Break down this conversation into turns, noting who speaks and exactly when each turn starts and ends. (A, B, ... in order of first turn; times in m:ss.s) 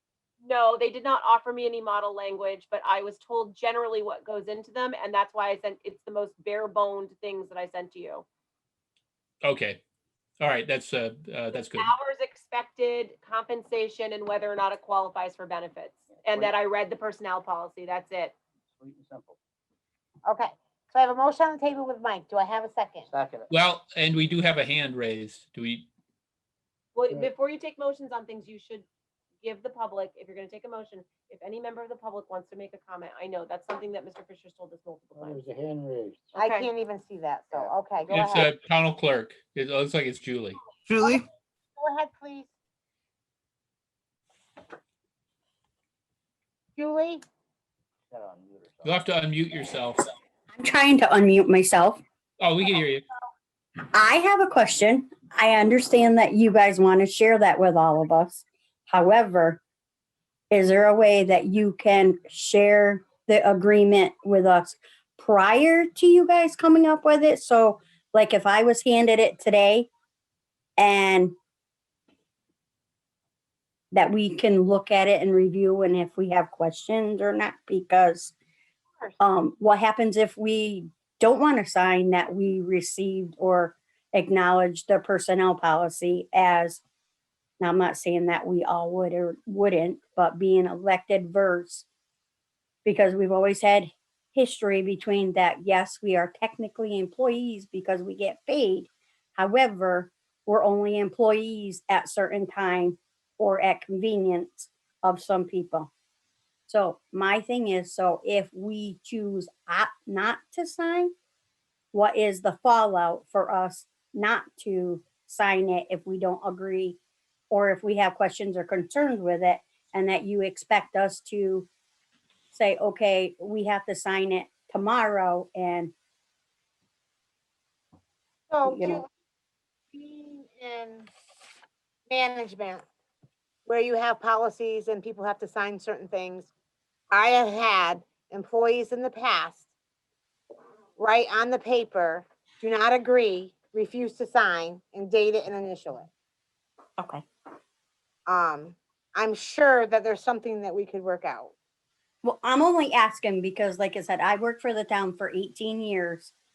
0:00.4-0:08.2 A
0:09.4-0:09.8 B
0:10.4-0:11.9 B
0:11.5-0:18.3 A
0:16.1-0:16.5 C
0:18.8-0:19.4 C
0:20.2-0:23.1 D
0:23.0-0:23.5 C
0:23.5-0:25.9 B
0:26.9-0:28.8 A
0:29.4-0:35.5 A
0:35.2-0:36.3 C
0:36.3-0:36.7 A
0:36.4-0:38.5 D
0:38.1-0:40.6 B
0:41.8-0:42.5 D
0:46.8-0:47.2 D
0:48.1-0:49.0 C
0:48.8-0:50.1 B
0:50.5-0:52.0 E
0:52.4-0:53.0 B
0:53.9-0:59.6 E
1:00.5-1:09.9 E
1:10.8-1:11.3 E
1:13.9-1:18.3 E
1:19.2-1:26.8 E
1:27.6-1:31.9 E
1:32.8-1:45.9 E
1:46.7-1:51.1 E
1:51.9-1:57.0 E
1:57.5-2:01.7 E
2:02.5-2:05.9 E
2:08.5-2:09.1 D
2:08.6-2:09.0 E
2:09.9-2:11.1 D
2:12.1-2:12.8 D
2:13.6-2:16.5 D
2:17.1-2:19.7 D
2:21.0-2:26.1 D
2:27.0-2:27.2 E
2:28.3-2:31.5 D
2:32.2-2:36.3 E